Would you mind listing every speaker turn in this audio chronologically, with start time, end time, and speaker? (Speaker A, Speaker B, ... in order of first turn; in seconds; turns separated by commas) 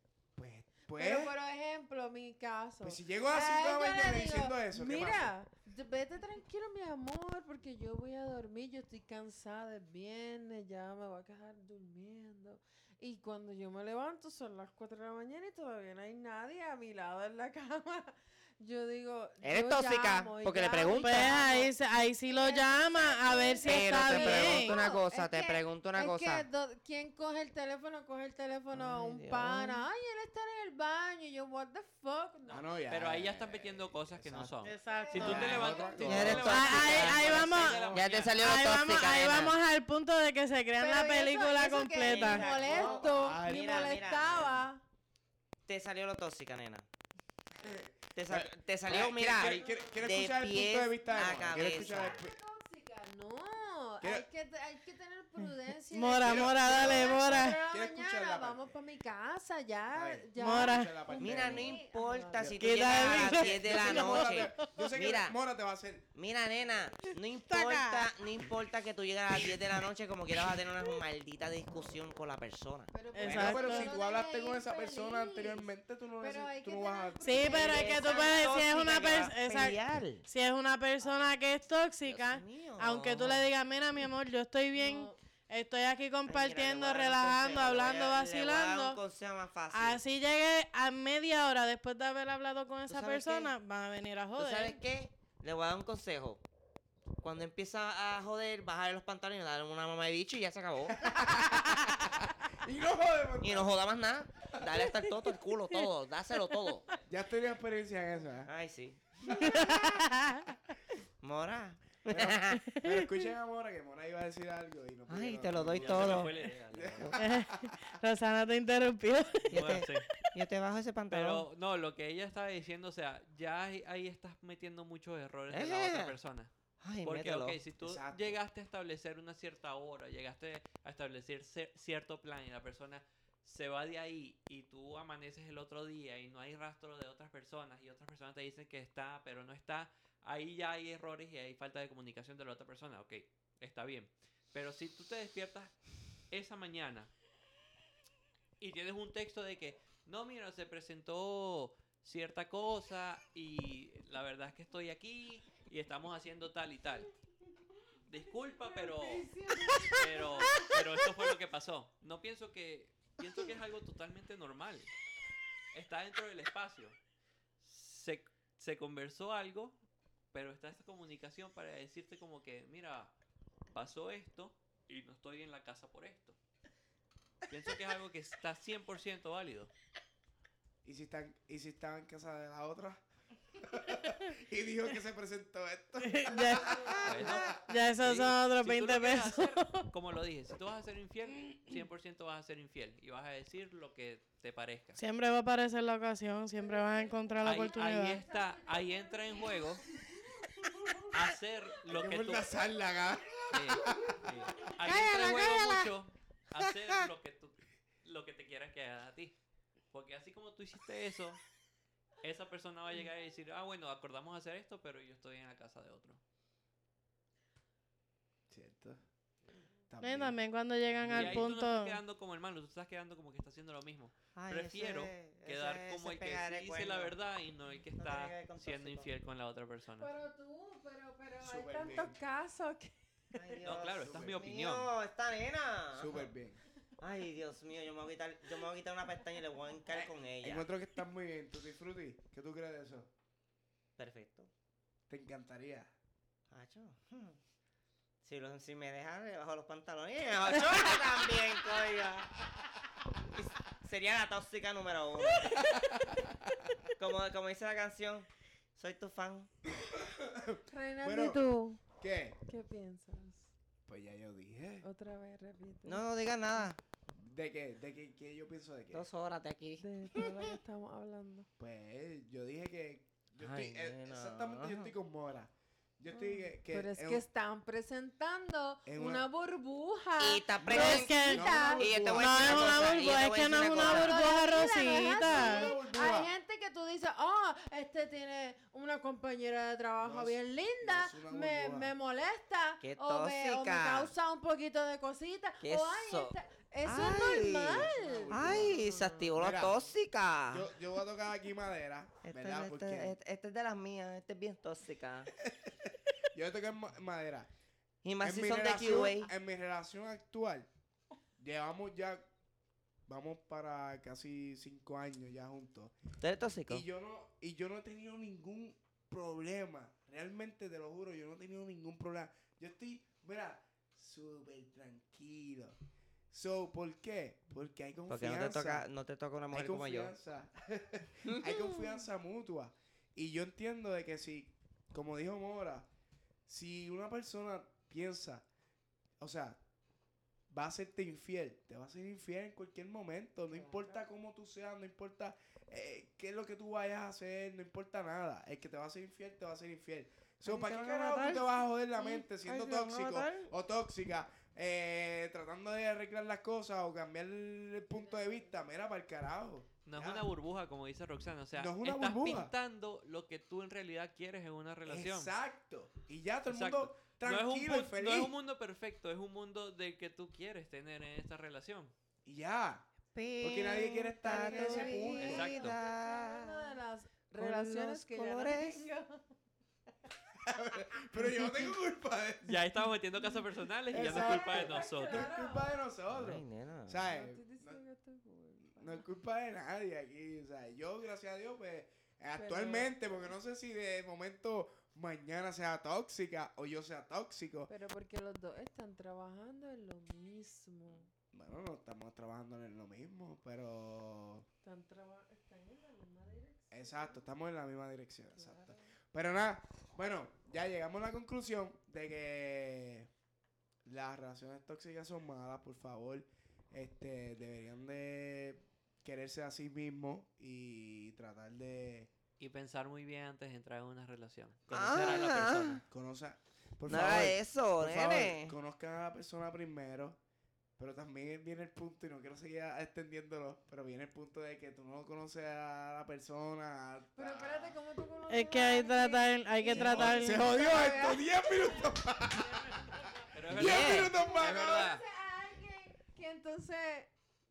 Speaker A: 0.3-1.3, Speaker B: 0.8-32.6, Speaker A: 2.8-5.3, Speaker C: 19.4-21.4, Speaker D: 21.0-24.7, Speaker C: 23.6-26.4, Speaker C: 28.7-29.8, Speaker E: 32.5-38.4, Speaker A: 32.5-34.5, Speaker D: 34.6-35.5, Speaker B: 34.7-36.4, Speaker A: 35.1-38.1, Speaker C: 36.0-39.5, Speaker D: 36.4-37.8, Speaker D: 38.4-42.5, Speaker B: 40.8-44.8, Speaker C: 42.0-44.7, Speaker A: 42.4-43.9, Speaker C: 45.6-46.9, Speaker A: 47.6-52.3, Speaker C: 48.1-52.2, Speaker B: 49.4-50.3, Speaker B: 51.0-63.3, Speaker A: 54.0-54.2, Speaker D: 55.9-57.6, Speaker A: 56.2-58.7, Speaker A: 59.9-61.8, Speaker D: 60.4-60.9, Speaker C: 61.2-65.4, Speaker A: 62.3-66.1, Speaker D: 62.6-64.7, Speaker C: 66.1-72.9, Speaker D: 67.5-68.1, Speaker B: 72.9-75.7, Speaker D: 73.1-73.9, Speaker A: 73.2-77.9, Speaker B: 76.2-78.7, Speaker D: 77.2-89.0, Speaker C: 77.5-80.2, Speaker C: 82.1-83.5, Speaker B: 84.7-85.2, Speaker C: 86.2-90.0, Speaker D: 89.7-94.8, Speaker C: 92.9-93.5, Speaker C: 94.4-96.4, Speaker C: 97.2-102.0, Speaker A: 100.9-103.7, Speaker C: 103.4-106.8, Speaker A: 107.1-108.5, Speaker C: 108.4-110.0, Speaker A: 109.2-109.8, Speaker D: 109.4-110.5, Speaker C: 111.2-112.7, Speaker A: 112.1-117.8, Speaker D: 112.7-113.1, Speaker C: 115.1-116.3, Speaker E: 115.7-117.1, Speaker D: 117.2-119.5, Speaker C: 119.5-121.4, Speaker E: 119.5-120.1, Speaker E: 121.1-126.5, Speaker C: 125.5-126.2, Speaker C: 126.8-127.6, Speaker E: 127.0-145.7, Speaker A: 127.8-128.4, Speaker E: 146.3-147.1, Speaker E: 148.6-157.1, Speaker E: 158.1-159.3, Speaker B: 158.5-160.8, Speaker E: 159.9-164.9, Speaker C: 160.5-160.8, Speaker E: 165.7-167.0, Speaker E: 167.6-169.8, Speaker E: 170.3-173.1, Speaker E: 173.7-176.3, Speaker E: 177.5-179.7, Speaker A: 180.8-183.0, Speaker A: 183.5-187.6, Speaker D: 186.0-187.0, Speaker E: 187.0-195.0, Speaker D: 187.6-189.8, Speaker D: 194.9-198.2, Speaker B: 196.8-197.3, Speaker E: 197.4-199.8, Speaker B: 198.0-199.7, Speaker E: 201.1-202.5, Speaker A: 201.9-204.5, Speaker E: 203.5-209.3, Speaker B: 203.7-204.3, Speaker C: 204.8-205.9, Speaker C: 206.6-206.9, Speaker E: 209.9-211.4, Speaker E: 212.2-216.2, Speaker A: 218.5-219.0, Speaker A: 219.9-220.4, Speaker D: 220.0-222.0, Speaker A: 220.9-221.5, Speaker E: 221.1-230.1, Speaker C: 224.3-227.1, Speaker C: 228.0-229.1, Speaker B: 230.0-233.6, Speaker A: 231.4-232.2, Speaker C: 233.3-236.3, Speaker E: 233.6-234.9, Speaker A: 234.0-234.4, Speaker A: 235.9-236.6, Speaker C: 237.0-240.6, Speaker A: 239.9-243.1, Speaker C: 244.0-244.5, Speaker A: 245.1-245.9, Speaker C: 246.5-247.4, Speaker C: 248.2-252.3, Speaker A: 250.4-251.3, Speaker C: 253.3-255.7, Speaker A: 255.3-256.7, Speaker C: 256.9-259.5, Speaker A: 259.8-262.4, Speaker B: 260.7-261.8, Speaker B: 262.4-263.5, Speaker A: 263.9-264.8, Speaker B: 264.8-266.1, Speaker C: 265.8-266.8, Speaker A: 267.1-269.1, Speaker C: 268.9-270.4, Speaker B: 269.8-271.5, Speaker A: 271.6-277.2, Speaker C: 273.4-274.9, Speaker B: 276.1-281.8, Speaker A: 278.9-279.2, Speaker C: 280.2-284.3, Speaker A: 280.6-283.1, Speaker D: 280.7-285.7, Speaker B: 283.8-298.8, Speaker A: 285.0-286.3, Speaker A: 290.0-291.9, Speaker C: 292.8-294.1, Speaker C: 295.6-300.7, Speaker A: 297.7-299.8, Speaker A: 300.5-303.1, Speaker C: 302.2-305.3, Speaker A: 305.4-307.5, Speaker C: 308.0-309.3, Speaker A: 308.2-310.7, Speaker A: 311.4-312.2, Speaker A: 313.1-315.9, Speaker C: 316.2-316.9, Speaker A: 316.7-325.7, Speaker A: 326.3-328.9, Speaker C: 328.1-330.1, Speaker A: 329.5-335.9, Speaker C: 331.3-331.9, Speaker A: 336.5-338.4, Speaker A: 339.2-339.6, Speaker A: 340.5-360.3, Speaker B: 343.5-344.0, Speaker C: 350.4-353.5, Speaker B: 357.9-358.5, Speaker E: 359.8-365.3, Speaker A: 361.5-362.5, Speaker A: 364.9-368.3, Speaker E: 366.5-371.9, Speaker A: 372.2-372.9, Speaker C: 373.1-376.7, Speaker A: 373.4-375.5, Speaker B: 374.2-379.2, Speaker E: 375.2-375.8, Speaker C: 377.4-378.8, Speaker A: 380.4-382.6, Speaker E: 382.4-385.3, Speaker A: 383.9-387.8, Speaker B: 383.9-385.7, Speaker C: 386.1-387.0, Speaker B: 387.0-389.0, Speaker A: 388.7-397.7, Speaker B: 392.4-392.9, Speaker B: 397.7-401.1, Speaker A: 401.3-404.5, Speaker B: 404.6-407.2, Speaker A: 406.7-413.1, Speaker B: 408.3-408.9, Speaker A: 413.8-422.1, Speaker E: 422.4-425.8, Speaker C: 424.7-425.8, Speaker A: 425.9-430.2, Speaker C: 426.9-428.5, Speaker A: 430.8-437.8, Speaker B: 437.1-441.9, Speaker D: 438.3-440.5, Speaker A: 439.7-442.8, Speaker B: 442.6-443.2, Speaker E: 443.3-445.0, Speaker A: 443.5-444.9, Speaker C: 443.5-444.1, Speaker B: 443.9-447.1